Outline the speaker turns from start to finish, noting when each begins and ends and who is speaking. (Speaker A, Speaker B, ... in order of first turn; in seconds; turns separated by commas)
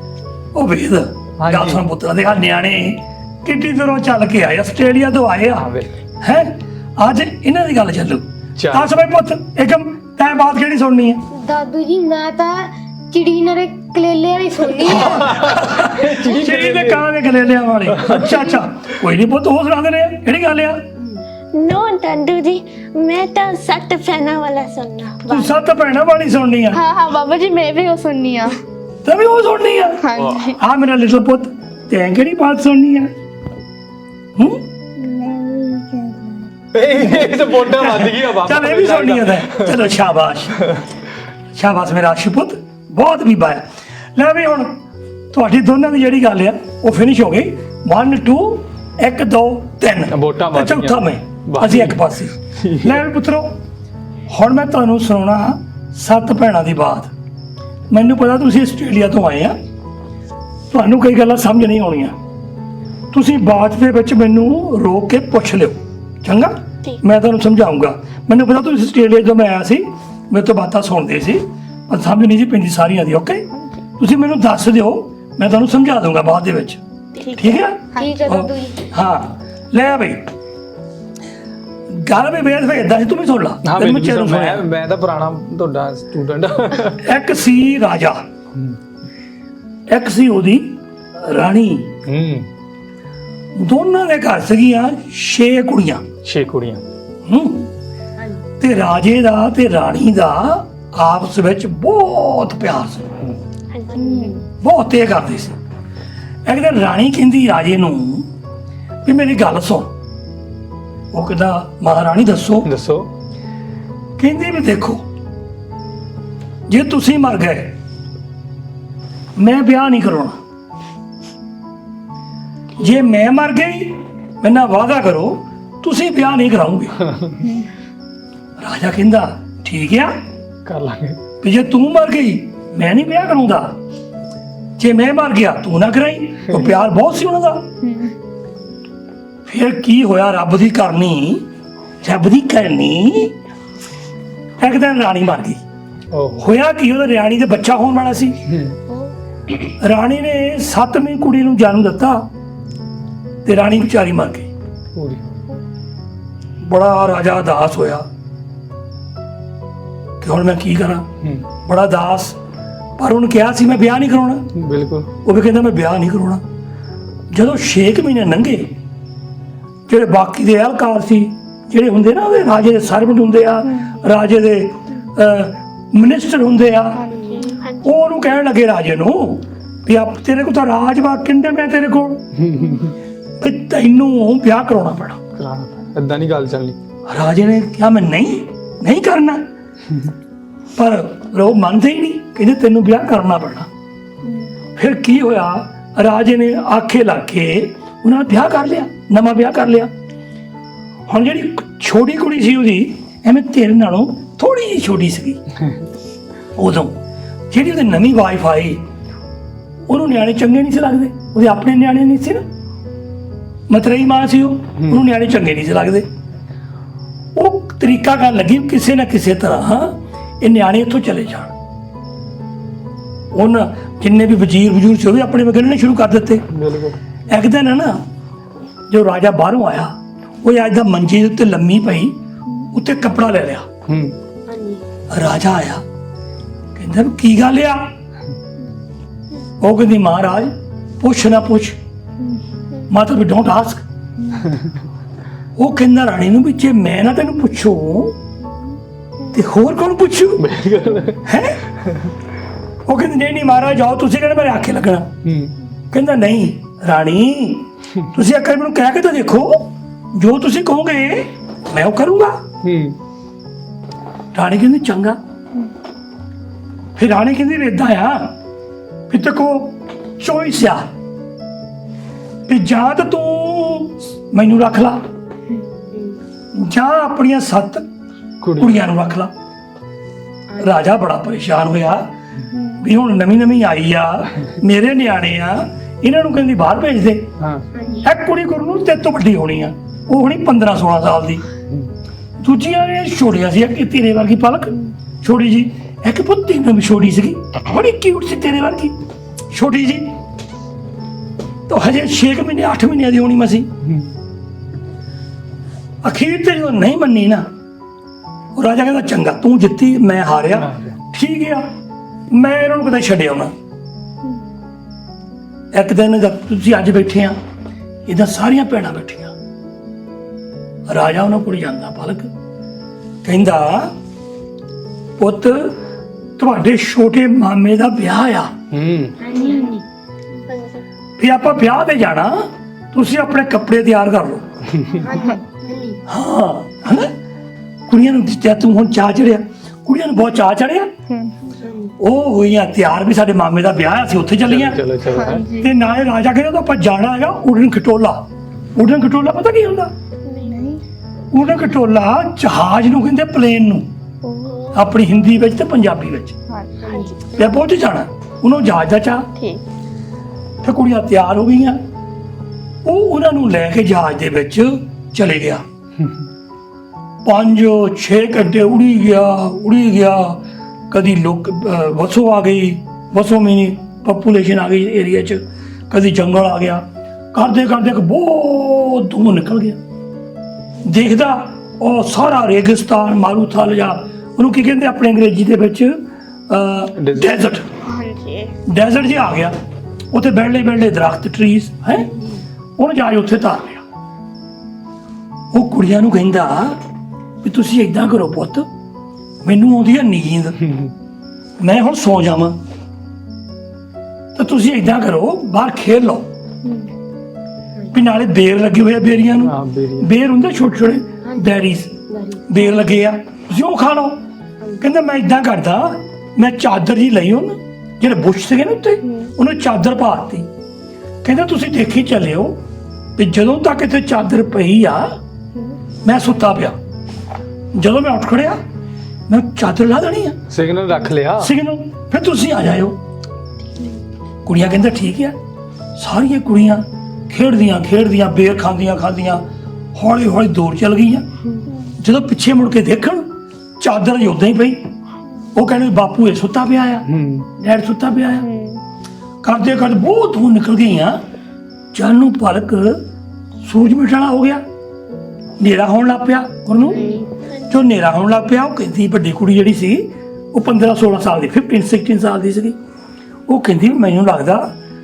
Speaker A: 0.5-11.2, Speaker B: 1.4-1.8, Speaker B: 5.6-5.9, Speaker B: 8.6-8.9, Speaker C: 11.3-15.5, Speaker A: 14.8-20.8, Speaker B: 15.0-17.1, Speaker B: 17.9-18.4, Speaker D: 21.5-25.2, Speaker A: 25.3-26.8, Speaker E: 26.7-28.6, Speaker A: 29.0-33.1, Speaker E: 30.0-30.6, Speaker B: 30.2-30.5, Speaker A: 34.4-34.6, Speaker E: 35.0-36.5, Speaker B: 36.7-40.0, Speaker A: 37.2-40.6, Speaker A: 41.5-43.6, Speaker A: 44.1-44.8, Speaker A: 45.3-53.6, Speaker B: 50.1-52.0, Speaker B: 52.6-53.0, Speaker A: 54.3-57.1, Speaker A: 57.9-59.5, Speaker A: 60.7-62.1, Speaker A: 63.1-73.5, Speaker A: 74.0-76.8, Speaker E: 77.2-78.3, Speaker A: 77.3-80.3, Speaker C: 77.9-78.9, Speaker A: 81.9-84.6, Speaker B: 83.6-87.0, Speaker A: 87.0-88.2, Speaker A: 89.9-92.0, Speaker B: 92.1-92.5, Speaker A: 93.5-96.1, Speaker B: 96.2-96.8, Speaker A: 97.2-97.7, Speaker C: 98.2-98.5, Speaker A: 98.6-103.1, Speaker C: 103.9-104.4, Speaker E: 103.9-104.4, Speaker A: 104.6-105.6, Speaker A: 106.5-108.3, Speaker A: 109.0-109.9, Speaker A: 111.1-112.7, Speaker B: 112.6-113.1, Speaker A: 114.2-115.0, Speaker A: 116.7-117.8, Speaker A: 119.4-120.4, Speaker A: 122.8-127.0, Speaker A: 128.6-130.1, Speaker B: 130.7-131.2, Speaker A: 131.4-133.8, Speaker A: 134.8-137.7, Speaker E: 137.8-138.1, Speaker A: 139.4-141.5, Speaker A: 142.0-143.3, Speaker A: 144.6-145.6, Speaker B: 146.1-146.5, Speaker A: 146.4-148.4, Speaker B: 148.5-148.7, Speaker A: 149.5-152.3, Speaker A: 153.4-154.5, Speaker B: 154.9-155.3, Speaker A: 156.6-158.1, Speaker A: 160.2-161.1, Speaker A: 161.6-162.4, Speaker A: 163.0-164.5, Speaker B: 164.6-165.1, Speaker A: 165.2-166.4, Speaker A: 167.3-168.7, Speaker A: 169.9-177.1, Speaker E: 177.0-177.8, Speaker C: 177.1-177.6, Speaker A: 177.8-182.2, Speaker B: 182.4-182.9, Speaker A: 183.4-185.2, Speaker B: 185.3-186.8, Speaker A: 187.1-189.4, Speaker A: 190.7-193.7, Speaker A: 194.8-199.9, Speaker A: 201.1-205.4, Speaker A: 206.6-207.0, Speaker A: 207.5-208.8, Speaker A: 209.9-212.4, Speaker A: 213.7-216.1, Speaker A: 217.3-221.5, Speaker A: 223.3-226.4, Speaker B: 226.5-227.0, Speaker A: 227.3-228.0, Speaker A: 228.9-232.2, Speaker A: 232.7-233.7, Speaker B: 233.9-234.1, Speaker C: 234.4-234.8, Speaker A: 235.1-235.8, Speaker A: 236.8-237.9, Speaker A: 239.6-241.8, Speaker A: 242.9-243.8, Speaker E: 244.2-244.5, Speaker A: 245.6-248.2, Speaker A: 249.3-250.5, Speaker B: 250.4-251.2, Speaker A: 251.2-251.6, Speaker A: 252.8-255.1, Speaker B: 255.2-255.5, Speaker A: 255.9-262.4, Speaker B: 262.6-263.0, Speaker A: 264.3-265.2, Speaker A: 266.9-268.3, Speaker A: 269.1-270.9, Speaker A: 272.5-275.0, Speaker C: 275.9-276.2, Speaker A: 276.6-277.8, Speaker B: 278.4-278.8, Speaker A: 278.6-279.3, Speaker C: 280.5-280.8, Speaker A: 280.6-282.1, Speaker E: 282.5-282.8, Speaker A: 282.8-287.3, Speaker C: 287.7-288.1, Speaker A: 288.0-291.4, Speaker A: 292.4-298.9, Speaker A: 299.5-300.2, Speaker A: 301.7-303.7, Speaker A: 306.0-307.4, Speaker A: 308.5-311.6, Speaker B: 310.5-310.9, Speaker A: 312.3-313.5, Speaker A: 315.7-317.4, Speaker A: 318.1-319.3, Speaker A: 320.9-322.3, Speaker A: 323.2-323.9, Speaker A: 325.2-325.8, Speaker A: 326.4-328.5, Speaker B: 328.7-329.1, Speaker C: 329.2-330.7, Speaker E: 329.4-329.7, Speaker A: 331.2-334.5, Speaker C: 334.9-336.0, Speaker E: 335.1-335.3, Speaker A: 336.1-337.1, Speaker A: 337.9-340.9, Speaker E: 341.1-341.4, Speaker C: 341.5-341.9, Speaker A: 342.0-344.8, Speaker B: 344.4-345.5, Speaker E: 345.0-345.8, Speaker A: 345.6-349.9, Speaker E: 350.3-350.8, Speaker A: 351.3-353.9, Speaker E: 354.2-354.7, Speaker A: 354.7-356.3, Speaker E: 356.5-357.2, Speaker C: 356.8-357.4, Speaker A: 357.4-359.3, Speaker E: 359.4-359.6, Speaker A: 360.6-361.8, Speaker A: 362.8-365.6, Speaker A: 367.2-379.8, Speaker A: 380.8-387.7, Speaker B: 387.0-387.5, Speaker E: 387.8-388.5, Speaker A: 388.7-389.5, Speaker A: 390.1-392.1, Speaker C: 391.9-392.4, Speaker A: 392.8-393.8, Speaker A: 395.5-396.8, Speaker A: 397.4-398.7, Speaker A: 399.4-400.6, Speaker A: 401.6-402.6, Speaker A: 404.3-406.2, Speaker A: 407.9-411.9, Speaker B: 409.4-410.1, Speaker C: 411.2-411.5, Speaker C: 412.1-412.8, Speaker A: 412.5-414.2, Speaker A: 414.8-420.5, Speaker E: 419.0-419.3, Speaker A: 421.2-422.6, Speaker A: 423.2-425.1, Speaker A: 426.0-426.8, Speaker A: 427.7-428.6, Speaker A: 429.3-430.4, Speaker B: 430.5-431.5, Speaker A: 431.4-433.0, Speaker A: 434.4-435.4, Speaker A: 436.0-441.3, Speaker E: 441.4-441.7, Speaker A: 442.0-444.9, Speaker A: 445.5-447.1, Speaker B: 447.1-447.5, Speaker A: 447.6-448.5, Speaker E: 448.4-448.8, Speaker A: 449.4-451.2, Speaker A: 451.9-453.0, Speaker A: 453.6-454.6, Speaker A: 455.6-457.1, Speaker C: 456.9-457.3, Speaker E: 456.9-457.2, Speaker A: 457.6-462.8, Speaker A: 463.5-464.7